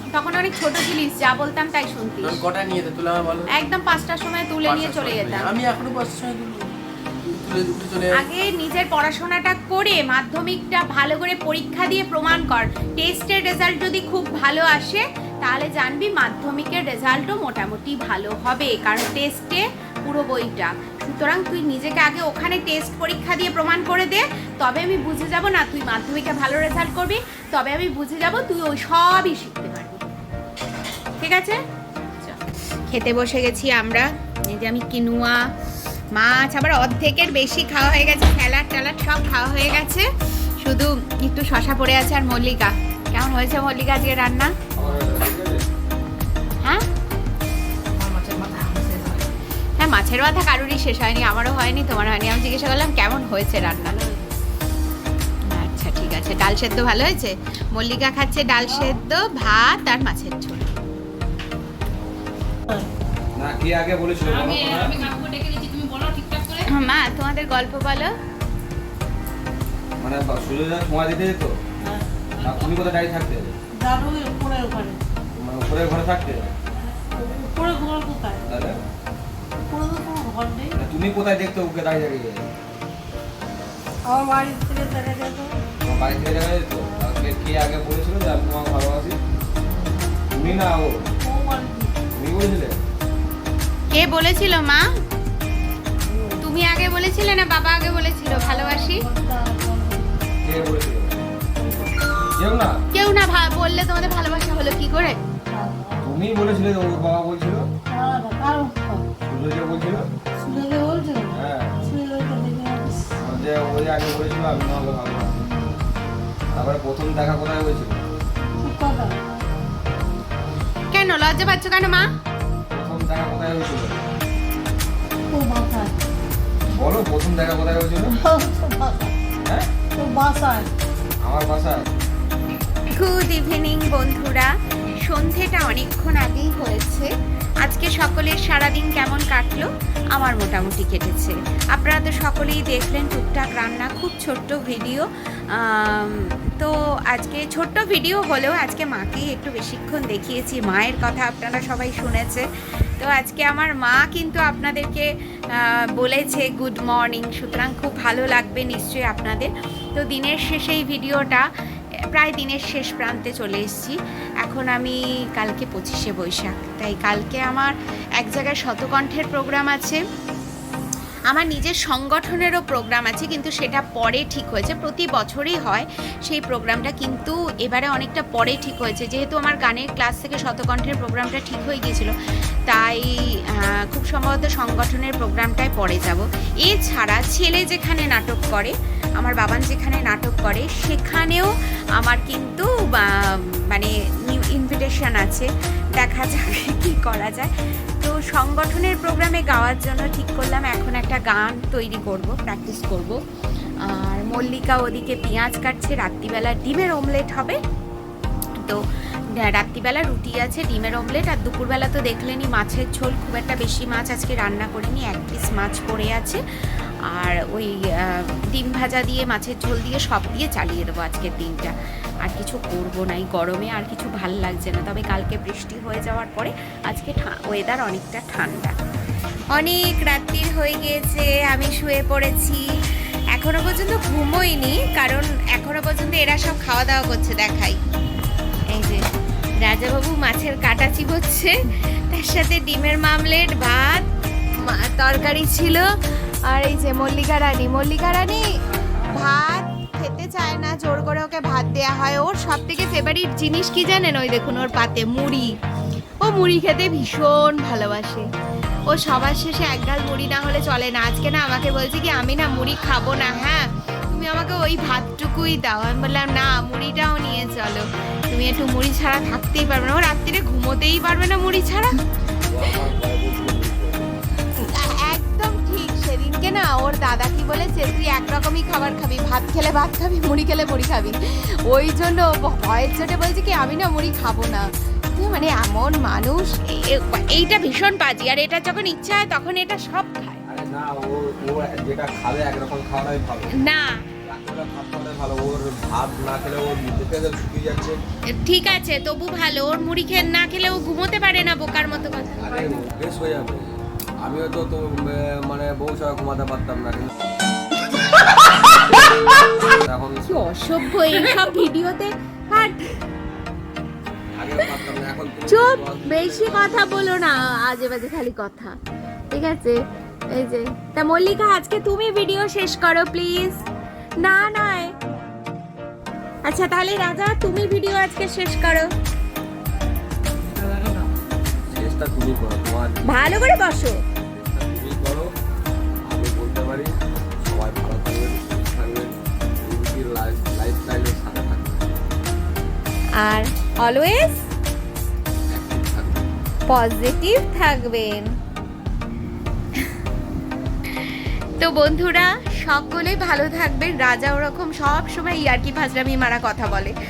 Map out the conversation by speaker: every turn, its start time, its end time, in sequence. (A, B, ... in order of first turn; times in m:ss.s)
0:00.1-0:02.4 A
0:02.2-0:03.5 B
0:03.5-0:05.5 A
0:04.6-0:06.7 B
0:07.2-0:08.2 B
0:08.1-0:30.0 A
0:31.2-0:31.6 A
0:32.2-0:35.4 A
0:36.1-0:40.1 A
0:40.6-0:44.5 A
0:44.8-0:45.6 C
0:48.0-0:49.2 B
0:48.2-0:49.2 D
0:49.8-0:54.0 A
0:55.5-1:00.7 A
1:03.4-1:05.1 C
1:04.2-1:06.7 D
1:06.6-1:08.1 A
1:10.0-1:11.6 C
1:11.8-1:12.1 E
1:12.4-1:12.7 D
1:12.4-1:13.5 C
1:13.8-1:15.0 E
1:15.4-1:16.5 C
1:17.0-1:18.5 E
1:18.5-1:18.8 C
1:19.7-1:20.8 E
1:20.8-1:22.4 C
1:24.0-1:25.6 E
1:25.8-1:29.2 C
1:30.3-1:31.0 C
1:31.2-1:31.9 E
1:32.2-1:32.8 C
1:33.9-1:34.9 A
1:36.0-1:36.4 E
1:36.4-1:39.0 A
1:38.3-1:40.2 E
1:40.4-1:41.2 C
1:41.6-1:42.0 E
1:42.4-1:42.8 C
1:42.9-1:45.2 A
1:45.5-1:46.1 E
1:46.0-1:47.7 C
1:47.9-1:49.1 E
1:49.3-1:50.1 C
1:50.4-1:53.2 E
1:51.3-1:51.8 C
1:53.2-1:55.4 C
1:56.5-1:58.0 C
1:58.6-1:59.2 E
2:00.9-2:02.1 A
2:02.7-2:04.0 C
2:05.3-2:06.0 E
2:06.7-2:08.1 C
2:08.1-2:09.1 E
2:10.0-2:10.7 E
2:11.2-2:11.9 C
2:12.9-2:17.1 A
2:17.6-2:32.4 A
2:33.0-2:41.4 A
2:42.1-2:50.0 A
2:51.3-3:02.1 A
3:02.7-3:23.2 A
3:23.9-3:27.6 A
3:29.4-3:36.4 A
3:37.1-3:48.8 A
3:49.6-3:52.6 A
3:53.3-3:57.8 A
3:58.7-3:59.0 A
3:59.6-4:04.1 A
4:04.6-4:05.9 A
4:06.5-4:08.4 A
4:09.0-4:15.6 A
4:16.2-4:18.3 A
4:18.9-4:32.0 A
4:32.5-4:34.1 C
4:34.6-4:50.4 A
4:50.5-4:53.5 C
4:53.6-4:54.0 A
4:54.2-4:58.0 C
4:58.3-5:02.8 A
5:02.4-5:07.3 C
5:09.6-5:10.5 C
5:10.3-5:13.0 A
5:14.4-5:16.8 C
5:15.5-5:18.8 A
5:19.3-5:19.8 A
5:20.3-5:23.6 A
5:24.2-5:25.0 A
5:26.4-5:28.9 A
5:30.4-5:31.0 C
5:31.7-5:33.2 C
5:33.0-5:34.0 A
5:34.3-5:35.3 C
5:36.1-5:42.0 C
5:43.2-5:44.4 A
5:45.5-5:46.2 C
5:46.7-5:48.4 A
5:51.0-5:57.0 A